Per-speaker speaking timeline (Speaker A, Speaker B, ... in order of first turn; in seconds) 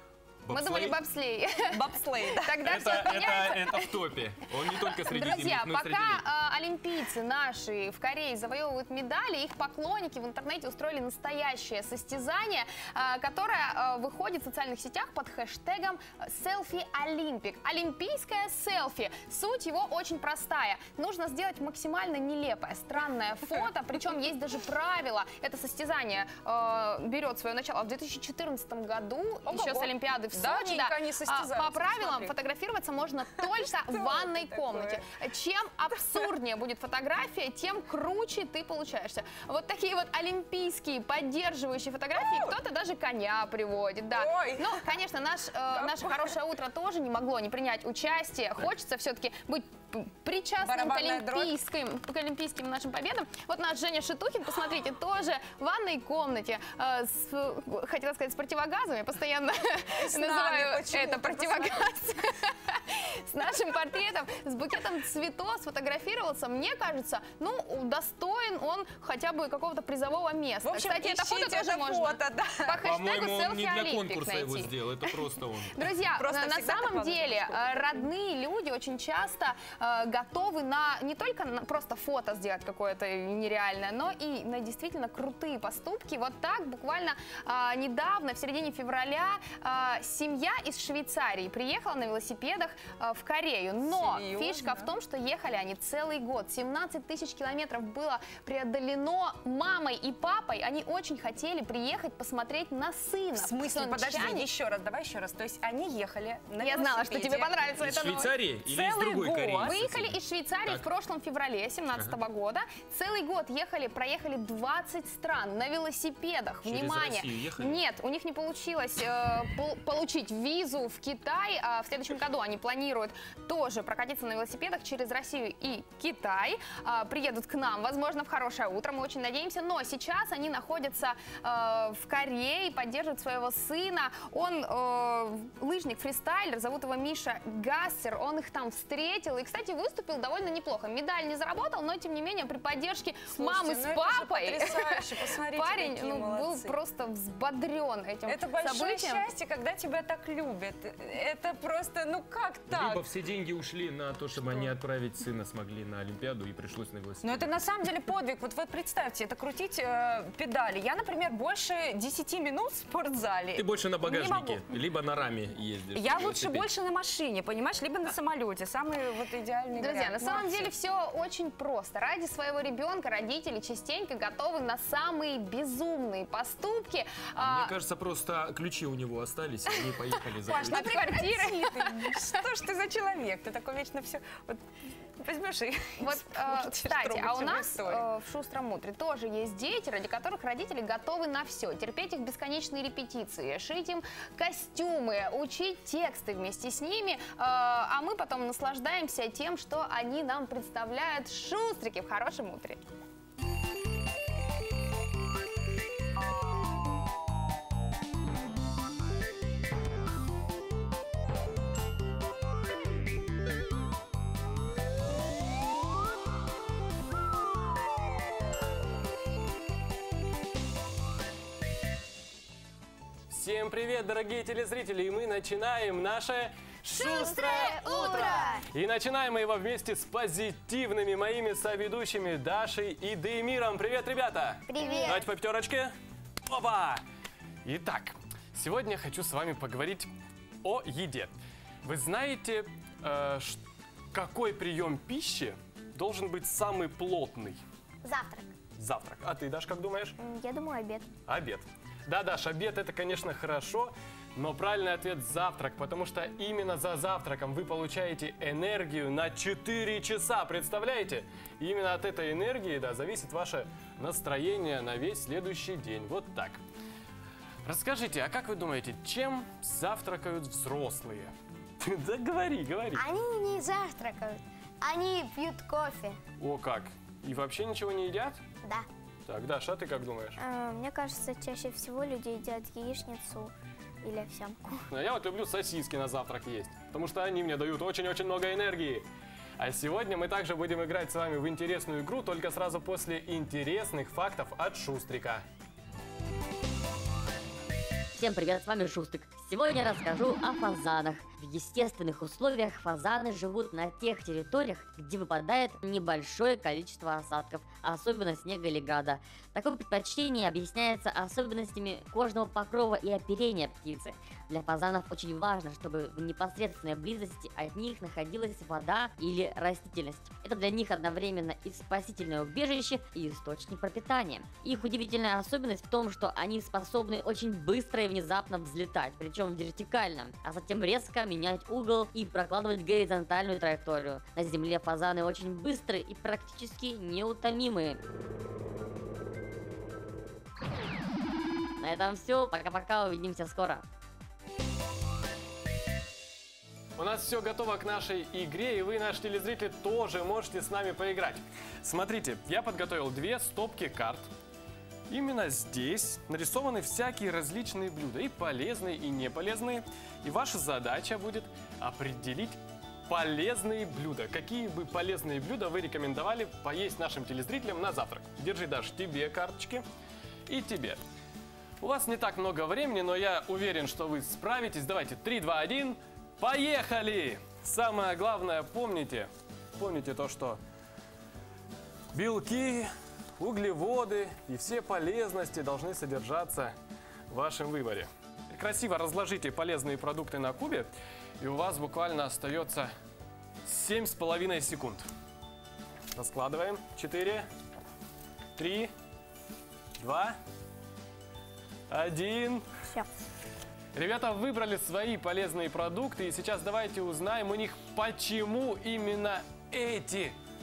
Speaker A: 0.5-1.0, 2.6-6.2, 72.8-75.8, 107.8-110.9, 116.6-117.8, 152.7-157.6, 163.5-166.7, 177.4-180.9
Speaker B: 0.5-4.0, 4.7-75.1, 75.8-104.5, 106.6-108.4, 109.6-144.9, 145.5-149.2, 169.8-177.8, 180.5-182.4, 186.0-202.8
Speaker C: 1.7-2.5, 29.4-32.3, 33.3-35.0, 35.9-36.3, 42.1-42.6, 44.1-44.9, 45.7-46.3, 50.6-51.6, 59.9-61.9, 70.6-72.8, 76.1-78.1, 93.8-94.9, 103.3-107.6, 108.6-109.7, 143.3-146.8, 148.2-153.1, 154.5-154.7, 157.2-164.7, 165.9-170.7, 180.4-184.6, 185.2-188.1
Speaker D: 223.3-235.9, 236.5-237.0, 237.6-240.1, 240.6-241.3, 241.8-243.6, 244.1-247.6, 248.8-250.2, 251.3-266.6, 267.6-273.0, 276.4-278.4, 279.3-280.4, 284.9-289.0, 289.6-295.4, 347.0-354.3, 355.1-369.8, 370.5-371.0, 371.8-380.6, 382.1-386.7, 387.3-392.9, 393.6-395.1, 396.1-397.4, 398.6-398.9, 400.0-400.4, 401.9-402.6, 403.9-410.3
Speaker E: 226.9-228.6, 234.7-235.3, 248.0-248.5, 250.2-251.1, 272.9-276.2, 280.4-283.5, 284.0-284.8
Speaker F: 298.1-338.0, 341.8-343.8